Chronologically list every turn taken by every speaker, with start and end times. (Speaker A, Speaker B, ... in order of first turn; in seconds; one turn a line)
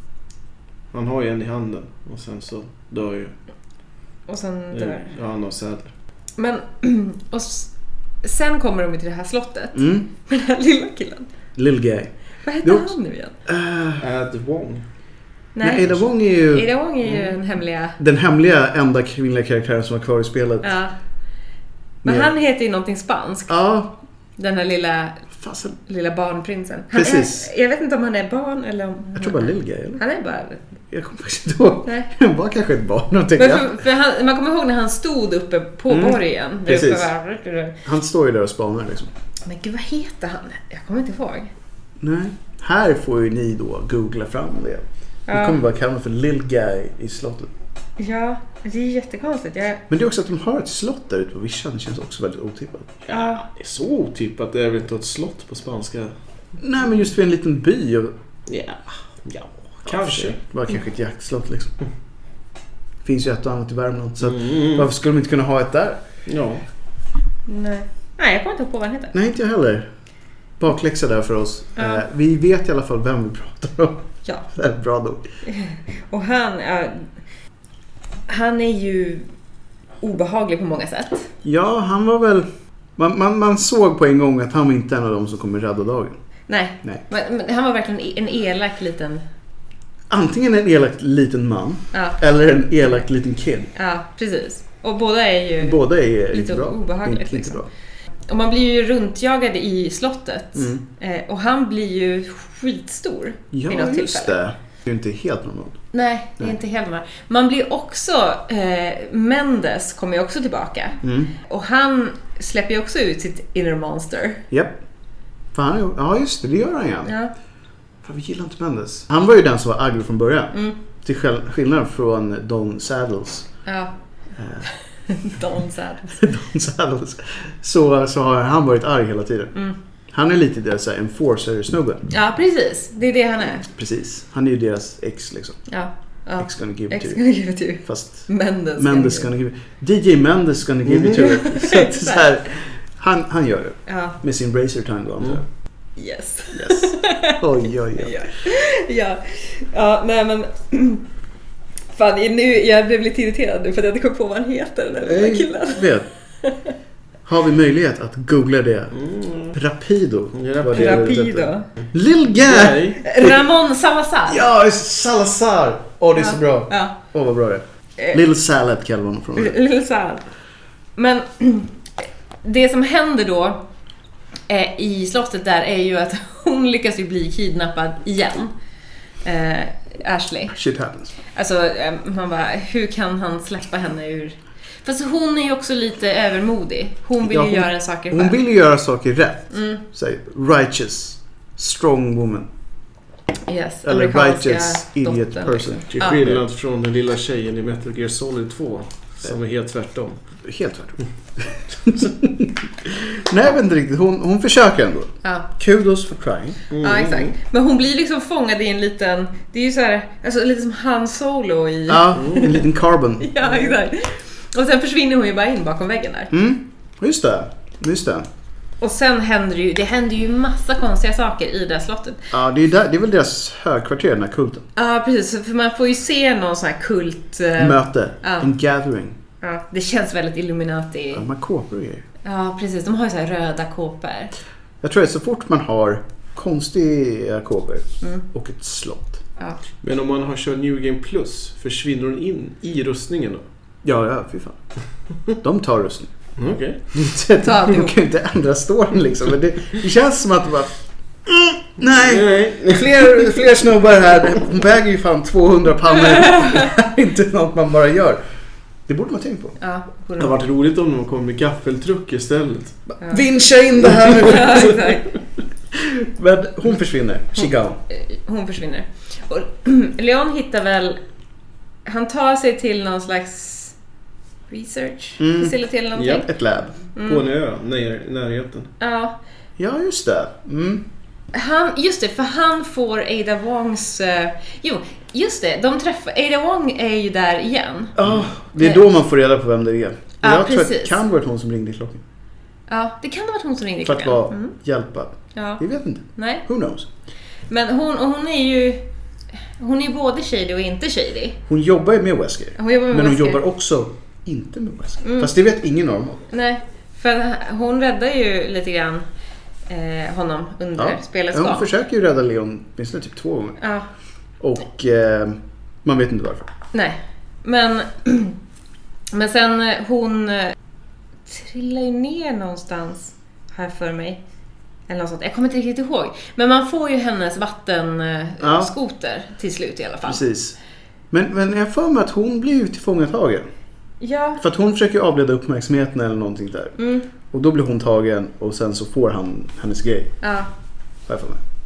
Speaker A: 0.9-3.3
Speaker B: 4.3-5.1
Speaker A: 4.7-5.9
Speaker B: 6.4-7.7
Speaker B: 8.2-11.3
Speaker C: 9.8-10.1
Speaker C: 11.6-12.1
Speaker B: 12.4-13.3
Speaker C: 12.6-12.9
Speaker C: 13.5-14.1
Speaker A: 14.0-14.8
Speaker B: 15.6-18.0
Speaker C: 15.6-16.7
Speaker C: 18.0-20.7
Speaker B: 20.6-20.9
Speaker C: 22.0-22.3
Speaker B: 22.0-23.5
Speaker C: 23.5-24.0
Speaker B: 24.4-25.3
Speaker C: 25.3-25.8
Speaker B: 25.8-30.6
Speaker C: 26.9-27.5
Speaker C: 29.1-30.0
Speaker C: 30.9-33.8
Speaker B: 31.9-32.1
Speaker B: 33.4-37.8
Speaker C: 35.9-37.1
Speaker C: 37.9-39.1
Speaker B: 39.5-41.5
Speaker C: 42.0-47.5
Speaker B: 45.3-45.6
Speaker B: 48.0-49.8
Speaker C: 49.9-53.0
Speaker A: 53.0-56.1
Speaker B: 53.1-53.4
Speaker C: 56.6-58.1
Speaker A: 58.5-60.4
Speaker C: 59.9-61.7
Speaker C: 63.0-66.0
Speaker A: 64.2-64.9
Speaker A: 66.3-66.6
Speaker B: 67.5-69.1
Speaker C: 69.1-69.9
Speaker C: 70.6-75.2
Speaker B: 71.8-72.0
Speaker B: 75.5-77.1
Speaker B: 78.3-79.3
Speaker B: 80.0-81.3
Speaker C: 81.4-86.2
Speaker B: 86.5-89.2
Speaker C: 90.1-93.7
Speaker B: 91.9-92.2
Speaker B: 93.8-97.6
Speaker C: 95.6-97.7
Speaker B: 98.3-104.4
Speaker C: 100.5-100.8
Speaker C: 103.5-105.8
Speaker B: 105.9-114.4
Speaker C: 111.0-111.3
Speaker C: 114.5-114.8
Speaker C: 115.5-117.1
Speaker B: 117.0-117.3
Speaker C: 118.0-123.5
Speaker B: 123.7-123.9
Speaker C: 124.4-124.7
Speaker B: 124.6-126.2
Speaker C: 126.1-129.6
Speaker C: 130.1-132.1
Speaker B: 132.1-133.7
Speaker C: 133.7-135.6
Speaker B: 135.7-139.3
Speaker C: 136.4-137.2
Speaker C: 137.8-145.4
Speaker A: 140.9-141.3
Speaker B: 141.2-142.3
Speaker B: 143.9-144.2
Speaker B: 146.0-147.4
Speaker C: 146.5-148.2
Speaker B: 148.0-151.0
Speaker B: 151.9-156.7
Speaker C: 155.0-156.1
Speaker C: 157.3-159.0
Speaker A: 158.9-159.6
Speaker C: 159.5-163.4
Speaker A: 160.4-161.1
Speaker B: 160.7-161.7
Speaker A: 162.4-163.0
Speaker B: 163.0-164.5
Speaker C: 164.3-169.6
Speaker B: 166.2-167.0
Speaker B: 169.3-170.2
Speaker B: 171.0-173.6
Speaker B: 174.5-178.5
Speaker B: 179.2-180.6
Speaker C: 180.5-181.1
Speaker B: 181.3-188.4
Speaker C: 187.2-192.5
Speaker B: 189.5-189.8
Speaker B: 193.5-196.2
Speaker C: 193.8-196.4
Speaker A: 195.9-200.2
Speaker C: 200.4-206.6
Speaker A: 206.7-207.3
Speaker B: 206.8-212.6
Speaker C: 211.9-213.4
Speaker A: 212.2-212.5
Speaker B: 213.2-216.3
Speaker C: 216.3-218.3
Speaker B: 218.8-222.3
Speaker C: 222.3-224.7
Speaker B: 224.8-228.5
Speaker C: 227.6-229.2
Speaker B: 229.4-231.3
Speaker C: 231.1-232.0
Speaker B: 232.2-234.3
Speaker C: 234.8-239.2
Speaker A: 239.8-243.4
Speaker C: 243.8-244.6
Speaker C: 245.4-246.1
Speaker A: 246.4-247.0
Speaker C: 246.9-258.2
Speaker B: 247.4-248.0
Speaker A: 251.8-253.4
Speaker C: 258.9-259.6
Speaker B: 259.6-260.4
Speaker A: 260.2-262.8
Speaker C: 263.0-264.9
Speaker B: 264.0-265.1
Speaker C: 265.7-267.8
Speaker B: 267.4-271.0
Speaker B: 271.9-273.8
Speaker B: 274.5-276.3
Speaker C: 275.2-275.6
Speaker A: 276.0-276.3
Speaker C: 276.1-276.8
Speaker B: 277.0-277.2
Speaker A: 277.0-278.7
Speaker B: 278.8-279.2
Speaker C: 279.6-280.9
Speaker B: 281.3-287.9
Speaker C: 288.0-292.0
Speaker A: 288.0-288.3
Speaker B: 288.6-288.8
Speaker B: 290.2-291.0
Speaker B: 292.7-294.5
Speaker C: 293.8-296.9
Speaker B: 295.4-295.6
Speaker B: 296.2-296.4
Speaker B: 297.5-298.8
Speaker B: 299.6-301.4
Speaker C: 301.5-306.2
Speaker B: 302.6-303.4
Speaker B: 305.0-305.3
Speaker B: 306.3-309.1
Speaker B: 309.7-311.7
Speaker C: 310.8-313.6
Speaker B: 313.6-313.9
Speaker C: 314.4-316.5
Speaker B: 316.7-318.4
Speaker B: 319.1-320.6
Speaker B: 321.3-324.2
Speaker B: 324.9-330.2
Speaker C: 328.4-328.7
Speaker C: 330.1-330.6
Speaker C: 331.1-333.5
Speaker B: 334.0-334.4
Speaker C: 334.4-336.8
Speaker B: 336.8-337.1
Speaker C: 337.3-340.1
Speaker B: 340.2-340.5
Speaker C: 341.1-341.4